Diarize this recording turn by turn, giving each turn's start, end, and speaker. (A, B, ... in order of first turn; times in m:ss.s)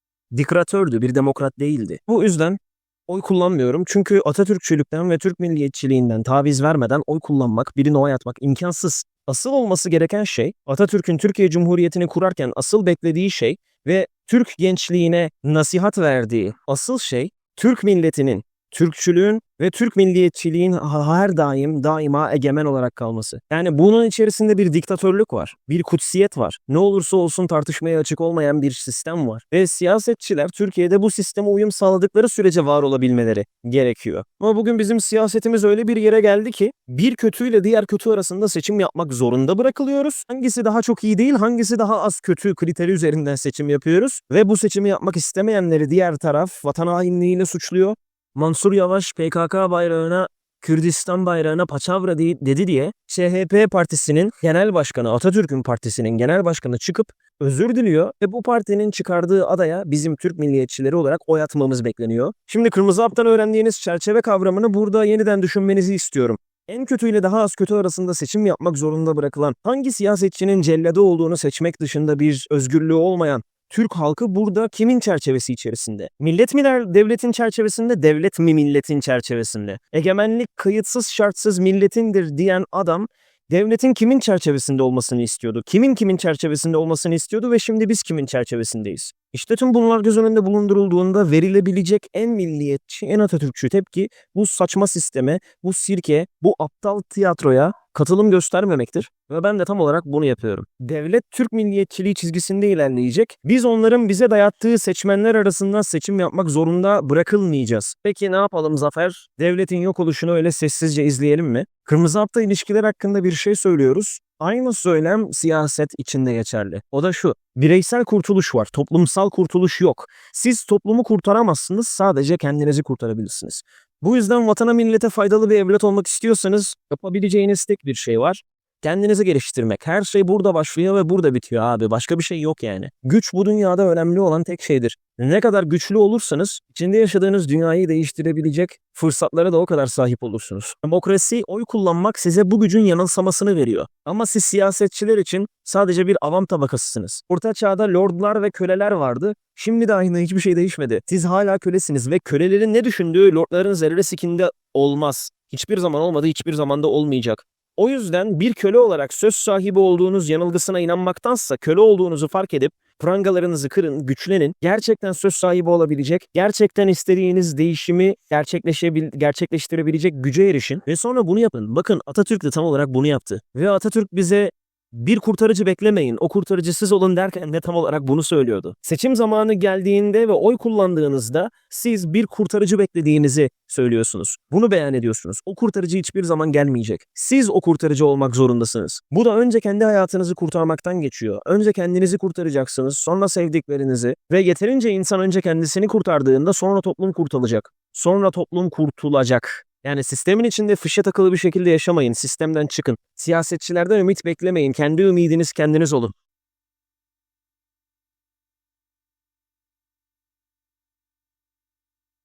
0:00.3-3:26.1 A